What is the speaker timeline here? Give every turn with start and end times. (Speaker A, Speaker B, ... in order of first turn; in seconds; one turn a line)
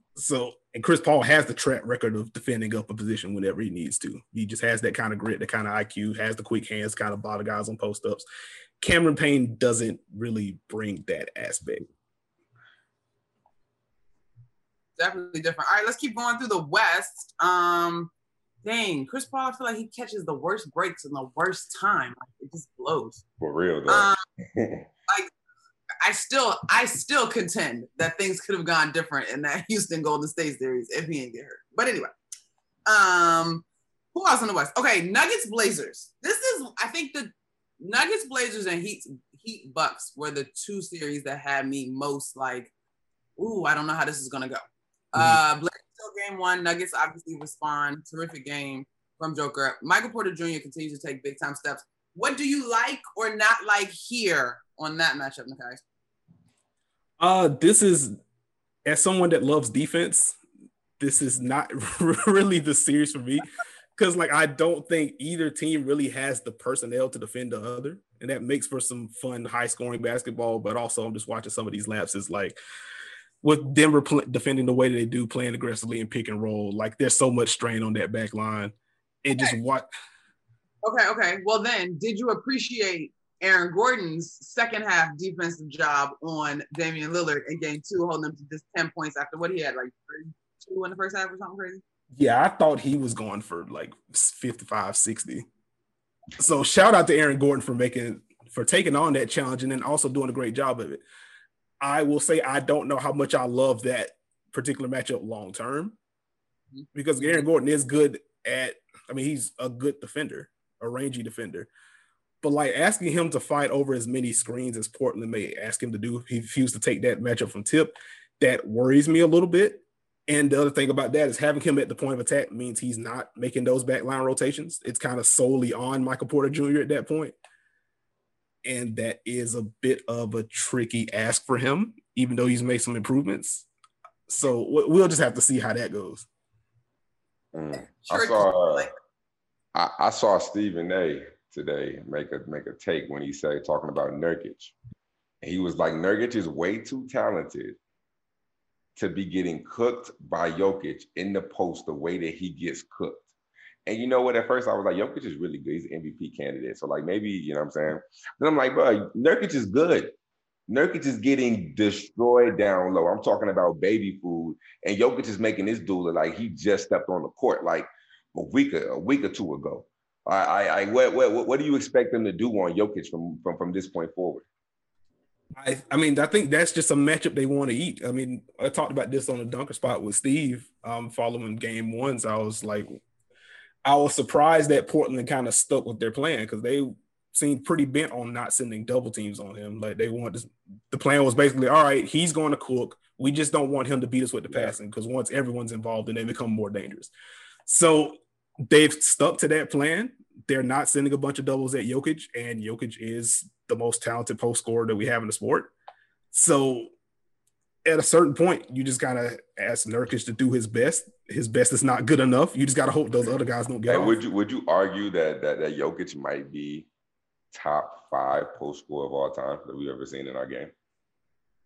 Speaker A: 0.2-8.2
Speaker A: 8.8-11.9
Speaker B: 15.0-18.1
Speaker B: 18.6-23.2
Speaker C: 23.4-24.9
Speaker B: 23.9-24.2
Speaker B: 26.0-32.1
Speaker B: 32.9-42.7
Speaker B: 43.4-44.6
Speaker B: 45.1-55.8
Speaker A: 57.2-58.2
Speaker A: 58.9-60.4
Speaker A: 61.0-72.6
Speaker A: 73.4-79.9
Speaker B: 80.8-91.8
Speaker A: 92.2-95.5
Speaker A: 96.4-101.0
Speaker A: 101.8-106.0
Speaker A: 106.9-111.7
Speaker A: 112.4-127.4
Speaker A: 128.6-133.7
Speaker A: 134.3-136.3
Speaker C: 137.5-138.9
Speaker B: 137.7-138.9
Speaker C: 139.7-144.8
Speaker C: 145.4-147.8
Speaker C: 149.0-153.2
Speaker C: 153.9-160.2
Speaker C: 160.7-174.5
Speaker A: 175.6-183.0
Speaker A: 183.8-197.1
Speaker C: 194.5-194.7
Speaker A: 197.7-205.7
Speaker A: 206.3-206.9
Speaker A: 207.8-214.2
Speaker C: 213.9-216.9
Speaker C: 217.5-220.7